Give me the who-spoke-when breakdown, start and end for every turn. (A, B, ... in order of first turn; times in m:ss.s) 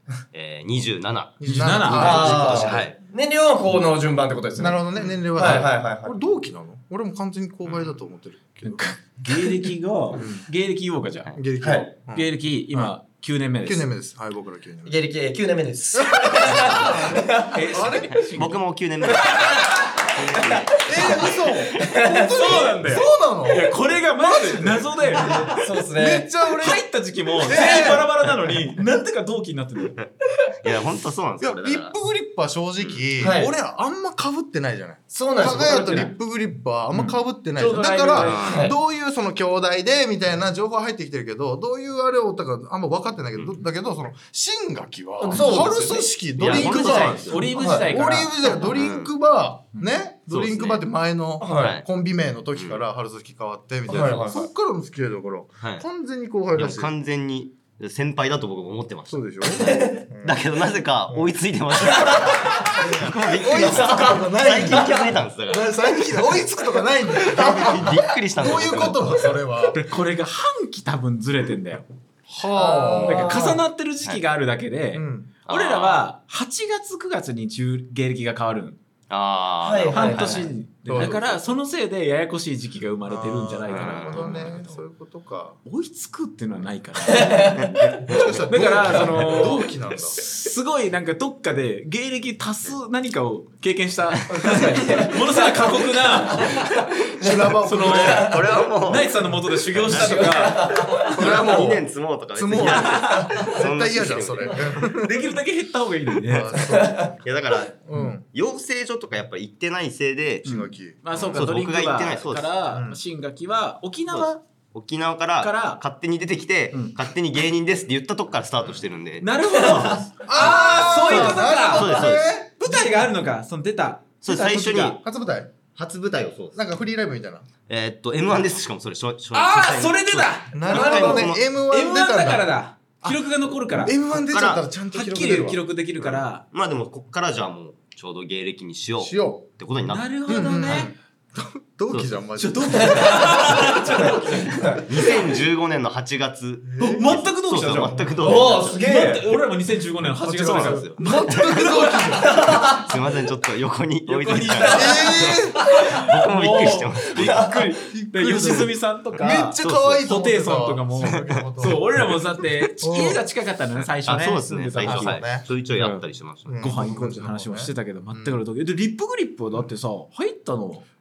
0:00.3-0:03.0 A
0:01.4-0:02.9 B
0:01.4-0:02.5 C
0:01.9-0:04.8 D
0:04.6-0:08.9 B
0:05.3-0:06.2 D
0:07.6-0:07.9 A
0:08.6-0:11.3 C
0:10.1-0:10.4 B
0:11.3-0:12.9 B
0:11.6-0:11.9 D
0:12.1-0:13.9 C
0:13.6-0:14.9 B
0:14.8-0:17.6 D
0:16.0-0:18.2 B
0:17.4-0:18.6 C
0:18.1-0:21.3 A
0:19.1-0:19.5 D
0:19.2-0:19.9 C
0:20.2-0:26.8 B
0:20.3-0:22.7 D
0:22.3-0:25.7 C
0:25.0-0:26.3 D
0:26.5-0:30.0 C
0:27.4-0:28.3 B
0:30.6-0:31.9 A
0:31.4-0:56.9 B
0:33.2-0:33.5 D
0:35.1-0:36.1 D
0:36.9-0:38.4 C
0:38.1-0:38.8 D
0:38.2-0:38.7 A
0:45.2-0:46.2 D
0:46.4-0:47.5 A
0:46.4-0:48.3 C
0:47.4-0:47.9 D
0:48.6-0:49.1 A
0:50.3-0:50.8 A
0:51.4-0:51.8 D
0:51.5-0:51.8 A
0:53.9-0:54.5 D
0:56.5-1:05.7 A
0:59.1-1:00.4 B
0:59.6-1:00.0 D
1:01.8-1:05.2 D
1:02.7-1:09.8 B
1:07.1-1:09.3 D
1:07.3-1:09.3 A
1:09.7-1:11.8 C
1:12.3-1:13.5 B
1:12.5-1:13.6 D
1:13.0-1:18.8 C
1:14.9-1:15.3 B
1:15.4-1:16.0 A
1:19.1-1:21.2 A
1:19.6-1:20.5 D
1:19.9-1:24.7 C
1:20.8-1:21.4 B
1:23.1-1:25.6 B
1:23.7-1:24.6 A
1:25.6-1:36.7 C
1:27.0-1:27.7 D
1:28.0-1:30.2 B
1:28.9-1:29.4 D
1:34.3-1:38.6 D
1:37.2-1:38.4 B
1:37.6-1:41.0 C
1:37.8-1:45.0 A
1:39.9-1:41.6 D
1:41.0-1:45.2 B
1:42.6-1:43.3 C
1:43.1-1:43.4 D
1:44.8-1:46.7 C
1:46.2-1:47.2 B
1:46.6-1:47.1 D
1:47.2-1:50.6 A
1:47.8-1:48.2 B
1:50.4-1:51.4 B
1:50.4-1:54.4 C
1:51.1-1:52.5 A
1:52.7-1:53.0 B
1:54.1-2:02.3 A
1:55.4-1:55.8 C
1:56.7-1:57.0 C
1:59.2-2:02.0 C
1:59.5-2:00.0 D
2:00.2-2:03.0 B
2:02.6-2:05.0 C
2:04.2-2:05.0 A
2:05.0-2:05.5 B
2:05.7-2:06.6 A
2:06.5-2:07.4 B
2:07.7-2:11.4 A
2:09.3-2:13.9 C
2:10.5-2:12.5 B
2:10.7-2:11.2 D
2:13.0-2:15.6 B
2:14.1-2:14.6 A
2:14.9-2:16.4 C
2:16.0-2:20.8 A
2:19.0-2:19.4 B
2:19.9-2:20.9 C
2:20.3-2:23.8 B
2:21.9-2:22.1 A
2:22.4-2:24.8 C
2:22.8-2:25.2 D
2:24.8-2:28.8 A
2:26.6-2:27.1 B
2:26.8-2:32.6 C
2:28.2-2:29.3 D
2:30.2-2:32.4 B
2:30.3-2:37.5 A
2:32.2-2:32.9 D
2:34.0-2:45.2 C
2:34.5-2:36.0 D
2:34.7-2:35.6 B
2:37.1-2:37.8 D
2:37.9-2:41.9 B
2:39.6-2:40.0 A
2:41.0-2:41.8 A
2:42.8-2:43.2 B
2:43.8-2:46.7 A
2:44.8-2:45.5 B
2:46.4-2:48.4 B
2:46.6-2:50.8 C